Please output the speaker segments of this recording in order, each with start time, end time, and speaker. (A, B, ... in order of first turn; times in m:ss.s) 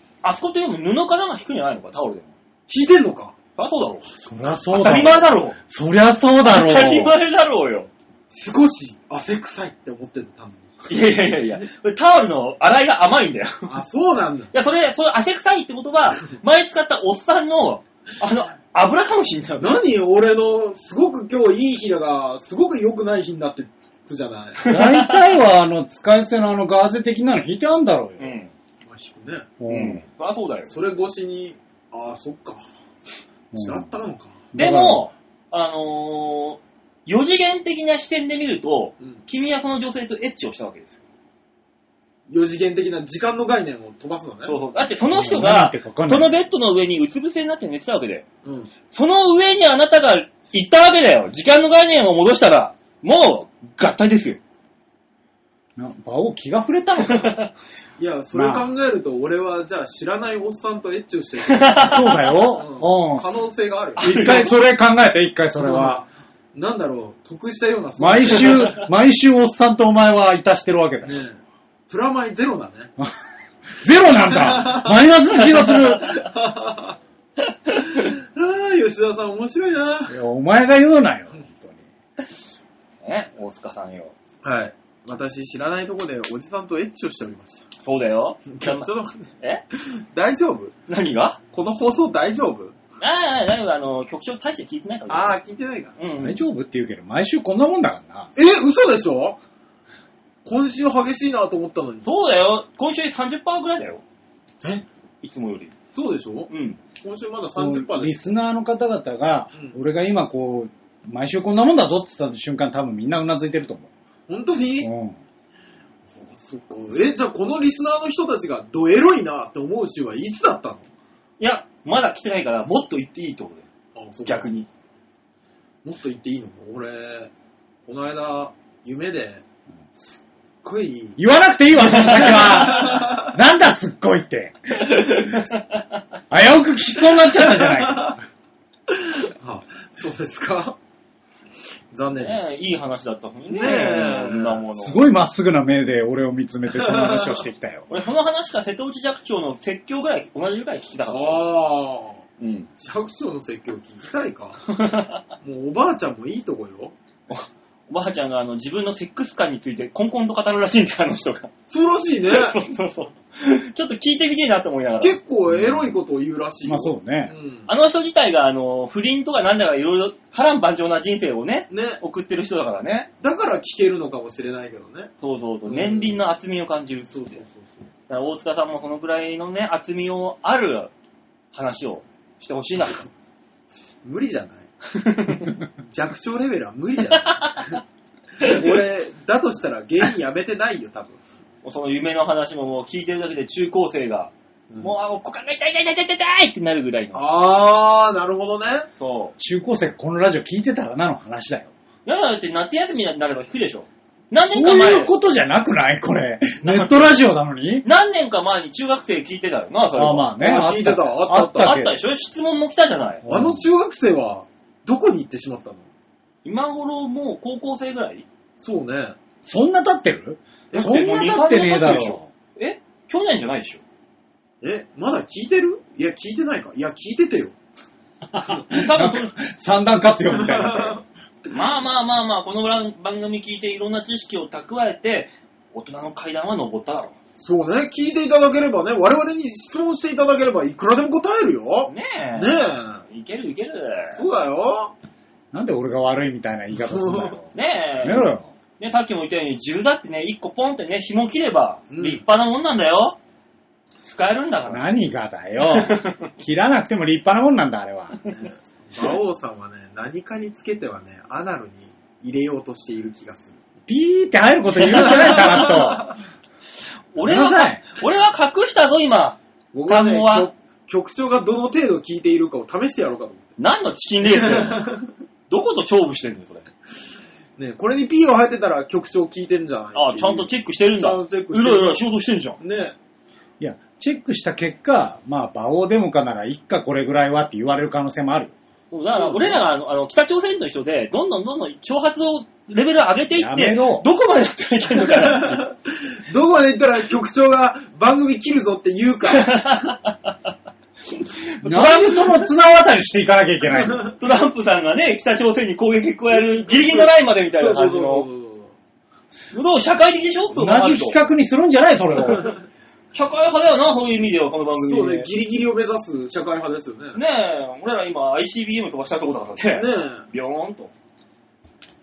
0:00.2-0:02.3 A
0:02.7-0:03.4 B
0:03.6-0:04.1 A
0:04.2-0:05.2 B
0:04.2-0:07.2 C
0:04.7-0:05.6 A
0:06.4-0:07.9 A
0:08.3-0:10.9 B
0:10.9-0:13.7 A
0:13.6-0:14.5 B
0:14.5-0:19.8 A
0:19.6-0:24.6 B
0:24.6-0:25.2 A
0:24.6-0:28.4 C
0:28.2-0:28.5 A
0:28.8-0:29.5 B
0:29.6-0:30.0 C
0:29.7-0:30.7 A
0:30.7-0:32.6 B
0:33.5-0:33.9 C
0:33.5-0:34.4 B
0:34.5-0:35.1 C
0:34.5-0:41.0 A
0:42.3-0:44.6 B
0:44.4-0:48.2 A
0:45.1-0:46.4 C
0:48.4-0:48.7 B
0:48.9-0:54.4 A
0:55.8-0:57.4 C
0:57.0-0:57.5 A
0:58.0-1:04.5 B
0:58.3-0:58.7 C
1:01.4-1:02.3 A
1:01.8-1:03.3 C
1:04.0-1:04.5 A
1:04.0-1:06.0 C
1:05.6-1:08.8 B
1:08.0-1:11.2 C
1:08.5-1:08.8 A
1:11.0-1:12.9 B
1:13.8-1:16.2 C
1:14.3-1:15.0 B
1:15.6-1:17.0 B
1:17.5-1:18.0 A
1:17.9-1:20.2 B
1:20.1-1:21.9 C
1:23.0-1:24.1 A
1:24.4-1:27.7 B
1:27.8-1:28.9 A
1:28.5-1:30.8 B
1:30.9-1:31.4 A
1:31.5-1:32.8 B
1:33.0-1:35.4 A
1:35.1-1:36.0 B
1:36.0-1:36.4 A
1:36.2-1:38.3 C
1:38.3-1:39.4 B
1:40.4-1:42.1 B
1:42.0-1:44.0 A
1:45.2-1:45.7 A
1:45.9-1:48.3 B
1:46.5-1:46.8 A
1:47.6-1:53.9 C
1:54.3-1:54.9 B
1:54.8-1:55.2 C
1:56.1-2:00.8 B
2:01.4-2:03.6 A
2:03.9-2:04.5 B
2:04.2-2:04.7 A
2:05.8-2:07.3 B
2:07.8-2:09.4 B
2:10.0-2:11.2 B
2:11.2-2:15.3 C
2:11.9-2:12.3 A
2:12.0-2:13.3 B
2:14.8-2:15.6 A
2:16.3-2:18.2 C
2:17.4-2:18.2 B
2:18.9-2:20.8 B
2:21.9-2:22.4 B
2:22.2-2:25.0 A
2:23.5-2:24.6 B
2:24.7-2:27.9 C
2:26.7-2:27.4 B
2:27.9-2:31.4 A
2:31.1-2:32.2 B
2:32.4-2:32.7 A
2:32.8-2:34.6 B
2:34.7-2:35.2 A
2:35.4-2:36.9 B
2:37.3-2:41.5 A
2:41.7-2:42.5 B
2:42.3-2:45.2 A
2:45.0-2:47.7 B
2:46.6-2:47.3 C
2:47.7-2:53.1 A
2:51.7-2:52.0 B
2:53.2-2:55.1 B
2:55.2-2:57.4 A
2:55.7-2:56.2 B
2:57.1-2:57.7 B
2:58.1-3:00.9 A
3:01.5-3:03.0 A
3:04.0-3:04.7 B
3:04.9-3:05.6 A
3:05.8-3:07.8 B
3:07.2-3:07.8 A
3:08.4-3:11.2 B
3:08.4-3:08.7 A
3:11.6-3:17.2 A
3:17.1-3:18.9 B
3:19.0-3:19.3 A
3:19.4-3:21.7 C
3:22.0-3:25.1 A
3:24.4-3:27.8 C
3:26.6-3:27.2 A
3:27.8-3:30.3 A
3:30.0-3:32.0 C
3:30.4-3:31.8 B
3:31.6-3:33.2 A
3:33.2-3:33.6 C
3:33.3-3:35.8 B
3:36.4-3:38.2 A
3:38.6-3:39.2 B
3:39.4-3:42.3 C
3:40.7-3:41.0 B
3:40.7-3:43.8 A
3:44.6-3:47.5 B
3:48.3-3:51.0 C
3:48.7-3:49.3 A
3:50.3-3:51.0 B
3:51.5-3:57.2 A
3:57.4-4:03.0 B
4:01.9-4:04.2 A
4:04.1-4:04.9 B
4:05.5-4:08.5 C
4:06.7-4:07.4 B
4:07.5-4:13.2 A
4:11.9-4:12.2 B
4:14.0-4:14.8 A
4:14.7-4:18.2 C
4:15.7-4:16.3 A
4:18.3-4:23.6 B
4:23.9-4:26.2 C
4:24.8-4:25.7 A
4:25.0-4:26.2 B
4:27.1-4:30.5 A
4:27.2-4:27.8 C
4:29.7-4:33.5 B
4:33.6-4:34.9 A
4:34.2-4:35.1 B
4:35.5-4:36.7 A
4:37.6-4:42.0 B
4:39.9-4:42.6 A
4:42.6-4:42.9 B
4:43.6-4:48.5 C
4:48.9-4:55.6 A
4:49.1-4:49.6 B
4:53.3-4:54.0 C
4:55.0-4:59.9 B
4:59.3-5:00.3 A
5:01.1-5:02.4 A
5:01.6-5:04.1 C
5:03.7-5:04.1 B
5:04.1-5:08.3 A
5:06.3-5:08.7 B
5:09.5-5:11.2 A
5:10.5-5:12.5 C
5:13.1-5:15.3 A
5:14.8-5:17.2 B
5:17.1-5:20.9 A
5:19.7-5:20.2 B